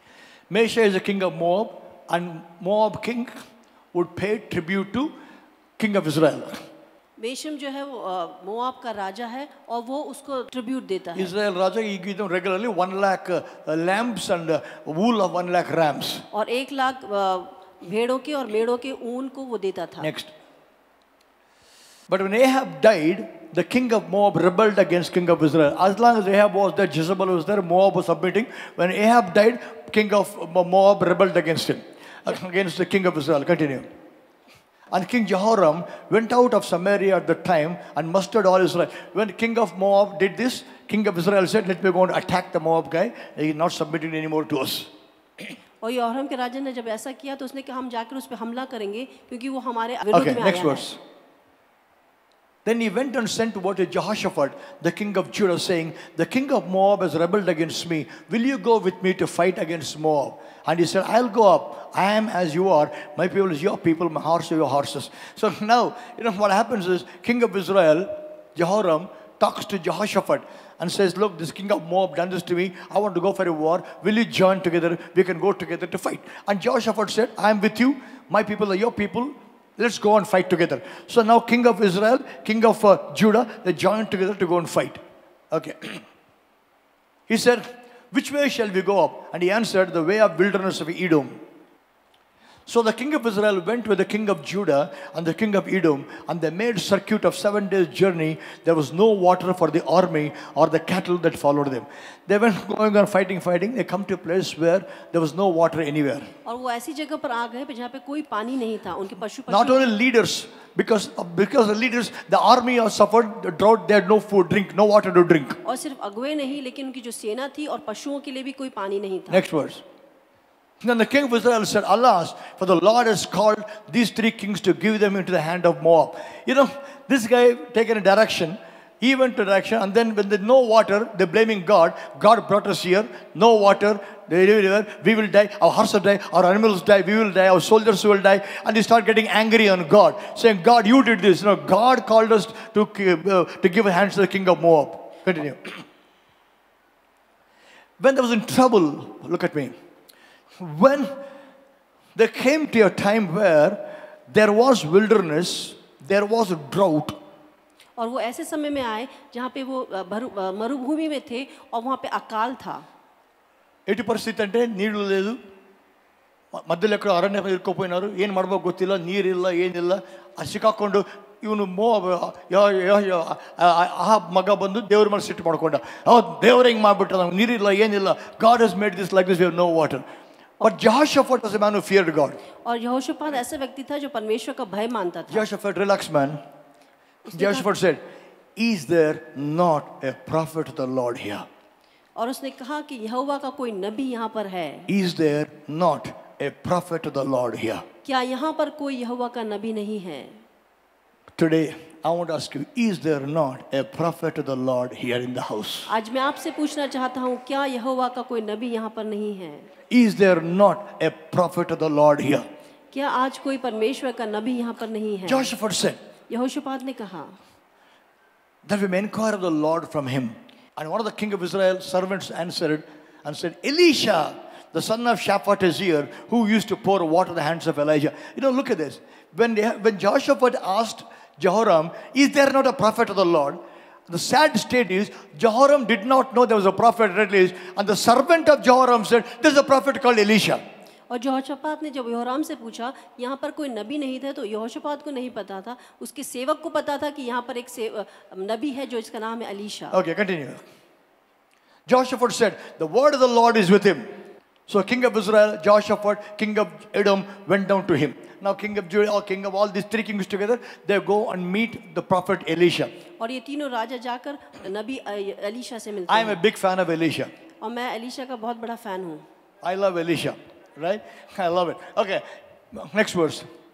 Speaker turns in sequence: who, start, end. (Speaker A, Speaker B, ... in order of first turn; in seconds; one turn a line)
Speaker A: 0.5-3.3
Speaker A: 3.9-5.1
Speaker A: 5.8-6.6
Speaker B: 7.2-11.3
Speaker A: 11.1-16.2
Speaker B: 16.3-20.1
Speaker A: 20.0-20.3
Speaker A: 22.1-33.9
Speaker A: 34.9-44.9
Speaker B: 45.8-50.9
Speaker A: 50.1-51.0
Speaker A: 52.6-86.0
Speaker A: 87.3-91.3
Speaker A: 92.7-106.3
Speaker B: 106.4-109.9
Speaker A: 109.5-115.6
Speaker B: 115.6-119.5
Speaker A: 119.3-119.8
Speaker A: 120.8-145.8
Speaker A: 148.0-149.7
Speaker A: 150.6-151.2
Speaker A: 152.1-157.2
Speaker B: 158.0-162.8
Speaker A: 163.9-165.4
Speaker A: 166.5-180.0
Speaker A: 180.6-182.4
Speaker B: 182.6-185.4
Speaker A: 185.3-186.4
Speaker B: 187.3-187.7
Speaker A: 187.3-188.0
Speaker A: 188.6-191.4
Speaker B: 192.2-194.9
Speaker A: 194.9-197.8
Speaker B: 198.0-200.4
Speaker A: 201.4-205.9
Speaker B: 205.9-209.7
Speaker A: 209.9-212.5
Speaker B: 212.9-215.5
Speaker A: 215.2-216.0
Speaker B: 216.3-217.4
Speaker A: 218.6-240.6
Speaker B: 241.1-250.0
Speaker A: 249.9-250.6
Speaker A: 251.9-254.1
Speaker A: 254.7-262.9
Speaker B: 263.2-266.4
Speaker A: 266.1-267.3
Speaker B: 267.6-269.2
Speaker A: 269.6-273.5